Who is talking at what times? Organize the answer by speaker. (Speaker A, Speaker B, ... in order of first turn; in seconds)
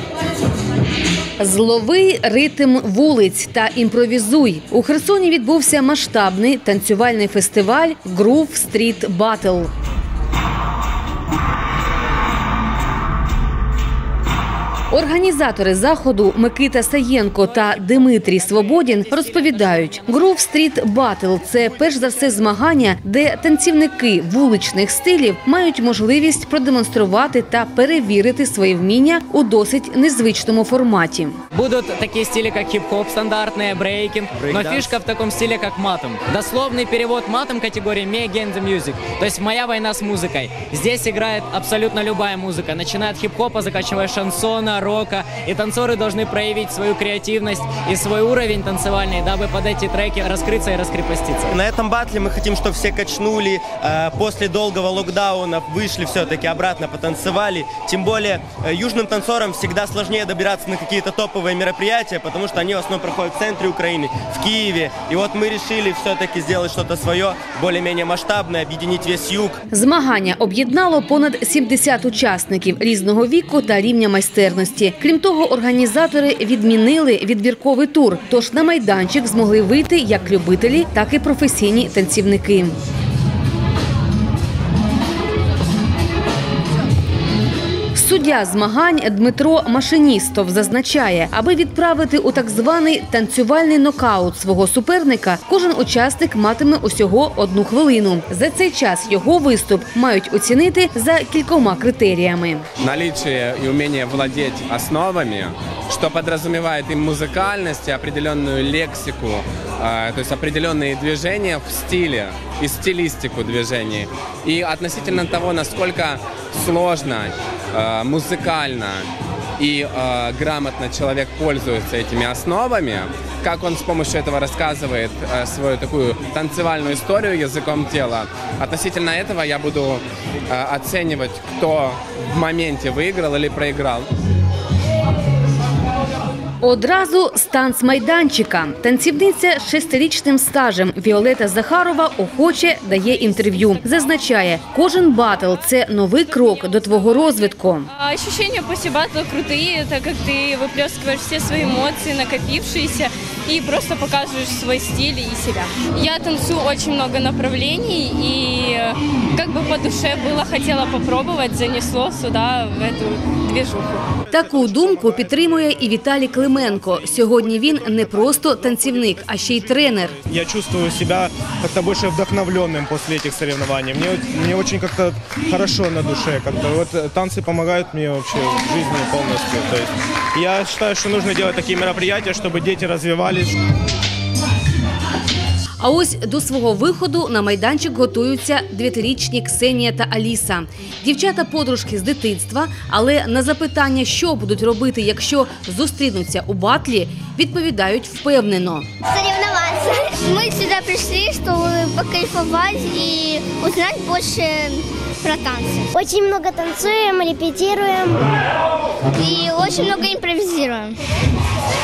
Speaker A: 1.4-9.7, 14.9-31.4, 69.7-82.8, 88.0-102.7, 136.6-147.9, 164.3-170.2, 185.8-198.9
Speaker B: 31.6-51.5
Speaker C: 34.4-35.0, 51.5-69.6
Speaker D: 102.8-134.1
Speaker E: 147.9-164.1
Speaker F: 164.3-165.7, 166.9-167.2, 167.9-169.6, 170.1-183.6
Speaker G: 199.1-208.4, 209.1-211.0